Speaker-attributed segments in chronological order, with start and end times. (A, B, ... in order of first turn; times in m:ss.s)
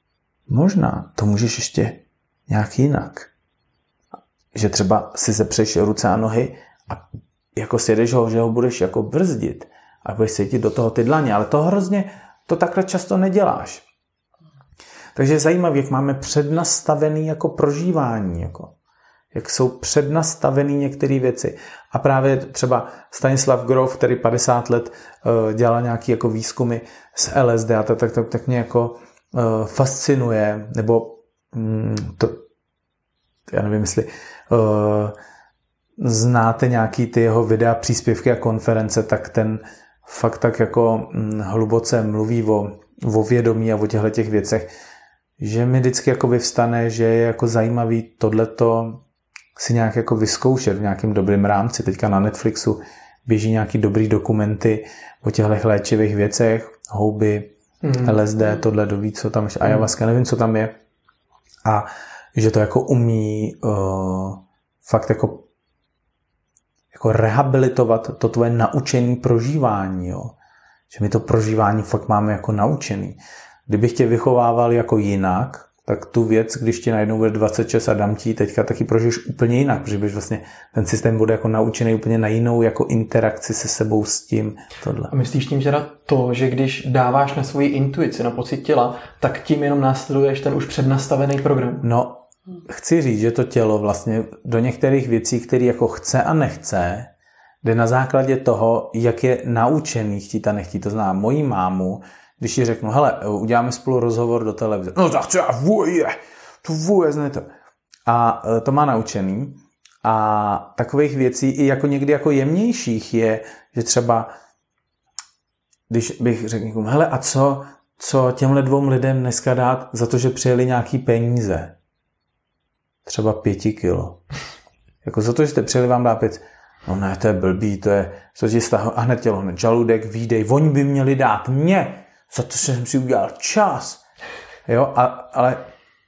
0:00.5-0:03.3 A
0:04.5-0:13.8 A
0:15.2-0:18.7 A
0:19.3-0:32.4 A
0:33.5-0:35.2 A
0:36.0-0:44.7 A
0:45.4-0:49.0 A
0:49.6-0:57.5 A
0:57.8-0:58.2 B
0:58.0-1:00.7 A
0:59.6-0:59.9 B
1:01.6-1:05.5 A
1:06.9-1:10.3 A
1:10.9-1:25.1 A
1:25.1-1:31.8 B
1:31.8-1:37.1 A
1:37.6-1:47.5 A
1:48.1-1:54.3 A
1:55.9-2:01.7 A
2:03.0-2:04.2 A
2:05.0-2:14.0 A
2:14.7-2:15.7 A